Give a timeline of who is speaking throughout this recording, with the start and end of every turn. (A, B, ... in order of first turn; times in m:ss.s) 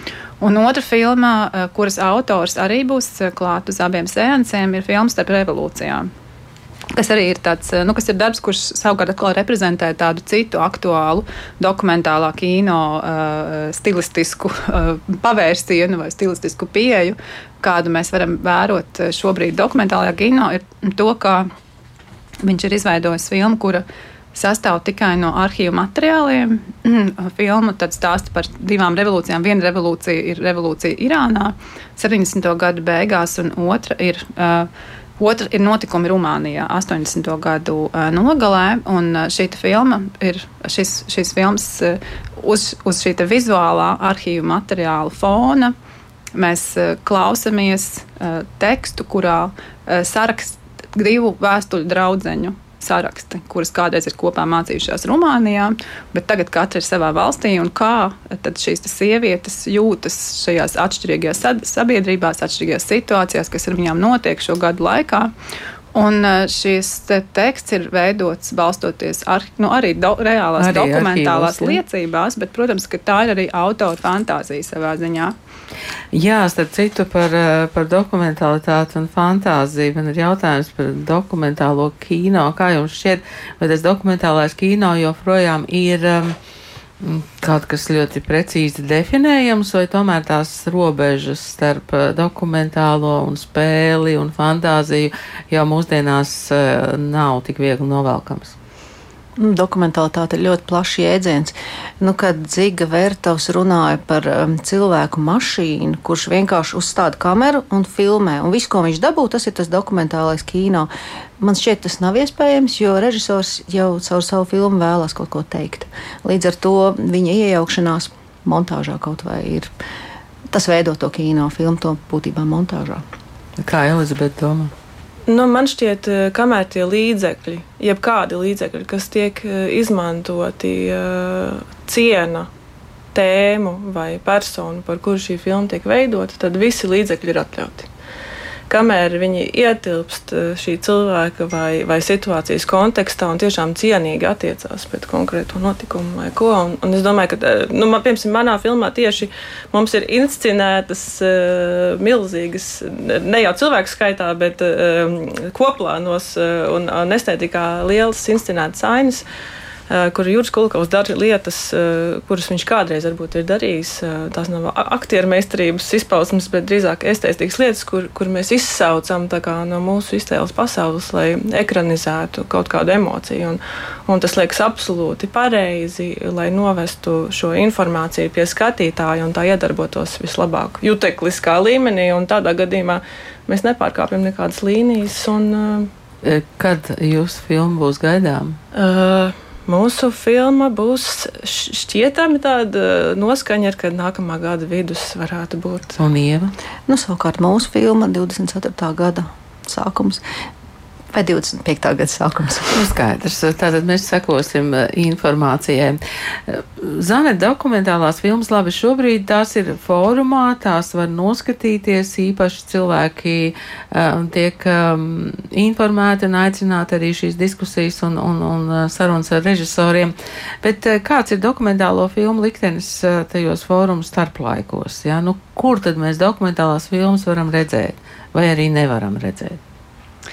0:00.4-0:06.1 A
0:06.9-0:21.5 A
0:22.4-0:45.7 A
0:46.4-1:05.3 A
1:06.0-1:15.3 A
1:10.6-1:11.8 B
1:16.1-1:26.4 B
1:27.0-1:38.6 B
1:39.4-1:59.7 C
2:00.5-2:03.0 C
2:03.6-2:04.7 B
2:05.3-2:12.5 D
2:13.1-2:17.9 D
2:18.7-2:39.2 D
2:39.9-3:05.9 D
3:06.2-3:08.6 B
3:08.7-3:15.9 D
3:16.0-3:16.5 B
3:16.9-3:20.2 C
3:21.1-3:22.8 C
3:22.7-3:49.6 B